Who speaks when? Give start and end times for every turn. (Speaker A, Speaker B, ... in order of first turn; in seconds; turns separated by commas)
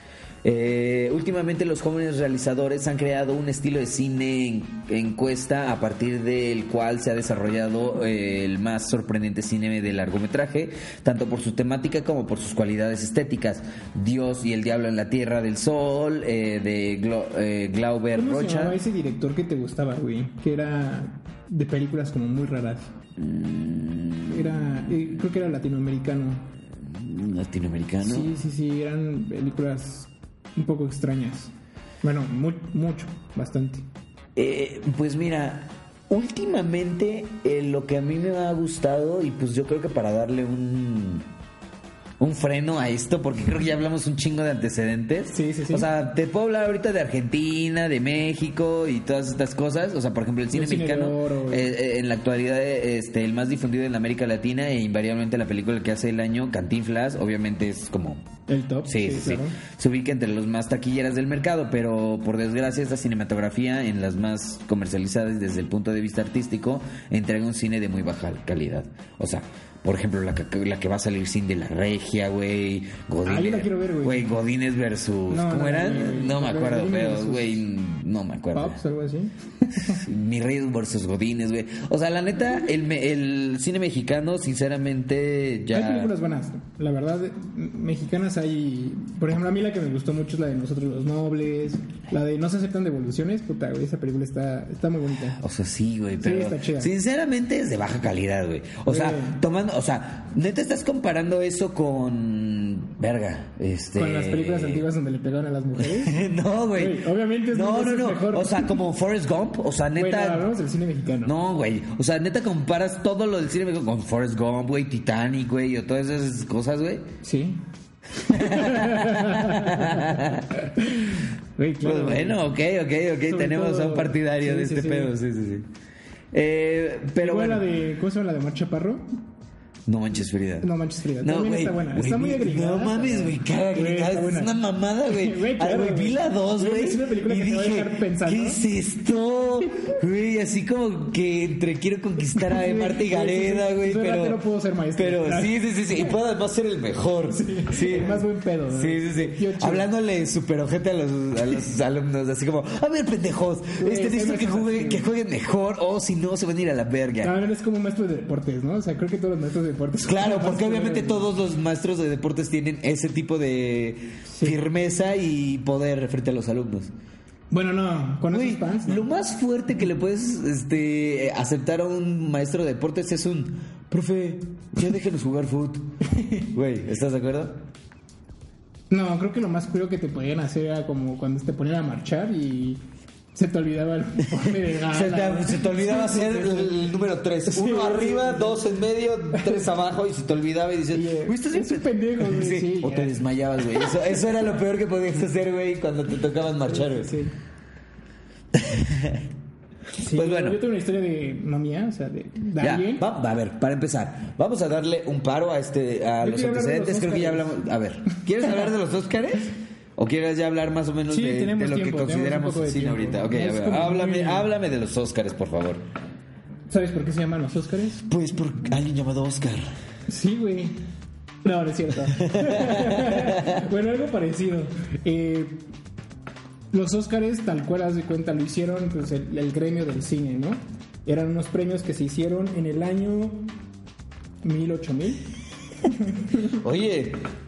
Speaker A: 0.4-18.8, Speaker B: 18.1-22.9, Speaker A: 23.2-25.1, Speaker B: 24.3-26.5, Speaker A: 26.8-28.3, Speaker B: 28.0-33.8, Speaker A: 34.4-41.2, Speaker A: 42.2-58.2, Speaker B: 45.3-45.9, Speaker B: 50.5-51.6, Speaker B: 58.5-59.6, Speaker A: 58.8-78.8, Speaker B: 73.2-74.2, Speaker B: 75.3-77.6, Speaker B: 78.5-80.0, Speaker A: 79.7-86.1, Speaker B: 85.7-95.4, Speaker A: 95.4-104.8, Speaker B: 96.2-96.9, Speaker B: 98.8-99.4, Speaker B: 104.0-106.2, Speaker A: 105.8-110.5, Speaker B: 106.7-108.8, Speaker B: 109.9-111.3, Speaker A: 111.2-117.1, Speaker B: 117.2-117.6, Speaker B: 118.1-122.5, Speaker A: 118.2-120.5, Speaker A: 121.8-125.7, Speaker B: 123.3-125.1, Speaker A: 126.3-127.7, Speaker B: 127.1-129.1, Speaker A: 129.8-130.7, Speaker B: 130.6-134.5, Speaker A: 131.2-144.4, Speaker B: 135.1-138.6, Speaker B: 142.5-146.1, Speaker A: 144.9-157.3, Speaker B: 147.3-149.9, Speaker B: 153.8-155.1, Speaker B: 157.2-161.3, Speaker A: 159.9-166.9, Speaker B: 164.3-164.6, Speaker B: 167.5-169.0, Speaker A: 168.3-177.6, Speaker B: 176.1-176.4, Speaker B: 178.9-182.8, Speaker B: 183.3-186.9, Speaker A: 184.5-197.2, Speaker B: 187.5-188.6, Speaker B: 189.3-189.6, Speaker B: 190.9-193.2, Speaker B: 196.6-197.3, Speaker A: 198.5-199.2, Speaker B: 200.0-203.0, Speaker A: 200.1-200.6, Speaker A: 202.6-215.8, Speaker B: 206.2-207.5, Speaker B: 211.1-214.5, Speaker B: 216.7-218.1, Speaker A: 218.1-219.7, Speaker B: 220.1-220.8, Speaker B: 221.4-225.7, Speaker A: 222.1-223.6, Speaker B: 226.7-233.5, Speaker B: 234.4-235.2, Speaker B: 235.8-236.6, Speaker A: 236.5-237.3